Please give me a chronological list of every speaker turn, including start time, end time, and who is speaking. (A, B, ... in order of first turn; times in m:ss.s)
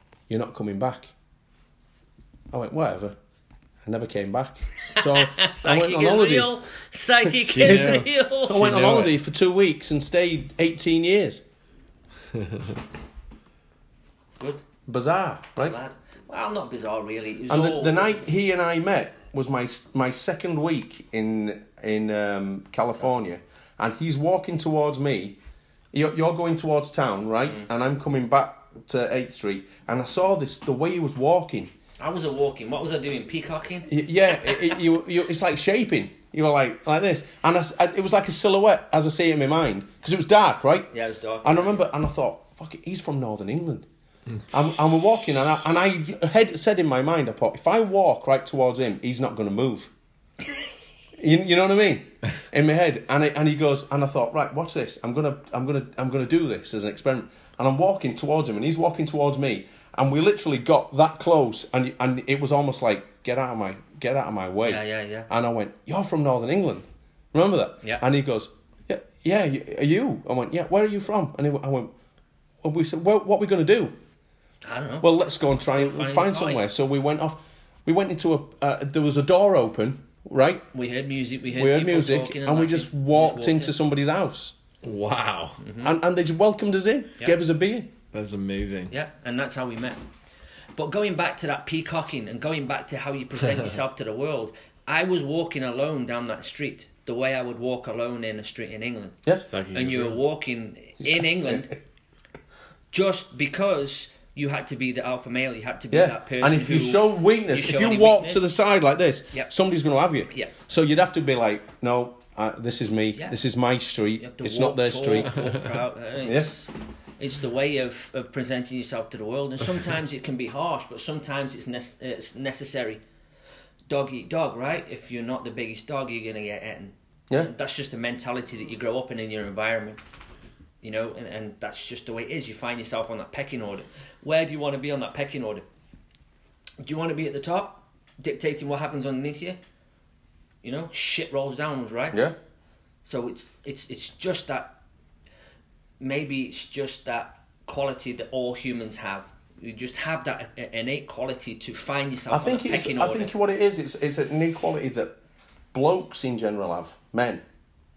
0:00.3-0:01.1 A
0:02.5-0:03.2 A
0:03.8-0:06.5 A
0:04.9-0:08.7 B
0:07.5-0:09.2 C
0:07.6-0:11.4 A
0:14.4-0:14.6 B
0:14.9-0:15.8 A
0:15.6-0:18.2 B
0:17.5-0:25.4 A
0:25.9-0:31.7 A
0:32.0-0:34.7 B
0:33.9-0:40.9 A
0:40.9-0:41.8 B
0:41.4-0:43.9 A
0:44.5-0:49.9 A
0:51.2-1:11.9 A
1:04.6-1:05.3 B
1:12.6-1:14.0 A
1:14.6-1:15.1 B
1:15.0-1:20.6 A
1:15.7-1:16.6 B
1:20.7-1:23.7 B
1:21.5-1:24.6 A
1:24.8-1:25.6 C
1:25.6-1:25.9 B
1:25.8-1:27.9 A
1:28.1-1:28.9 C
1:28.9-1:30.0 B
1:30.8-1:39.2 B
1:39.4-1:40.2 C
1:39.7-1:41.8 B
1:41.0-1:41.6 A
1:42.9-1:48.4 B
1:45.9-1:55.4 A
1:54.2-2:03.0 B
1:56.2-1:56.5 A
2:03.9-2:10.0 B
2:10.8-2:15.6 B
2:16.8-2:19.6 B
2:20.6-2:22.2 B
2:23.0-2:24.8 B
2:26.0-2:33.3 B
2:32.3-2:35.2 A
2:35.7-2:37.4 A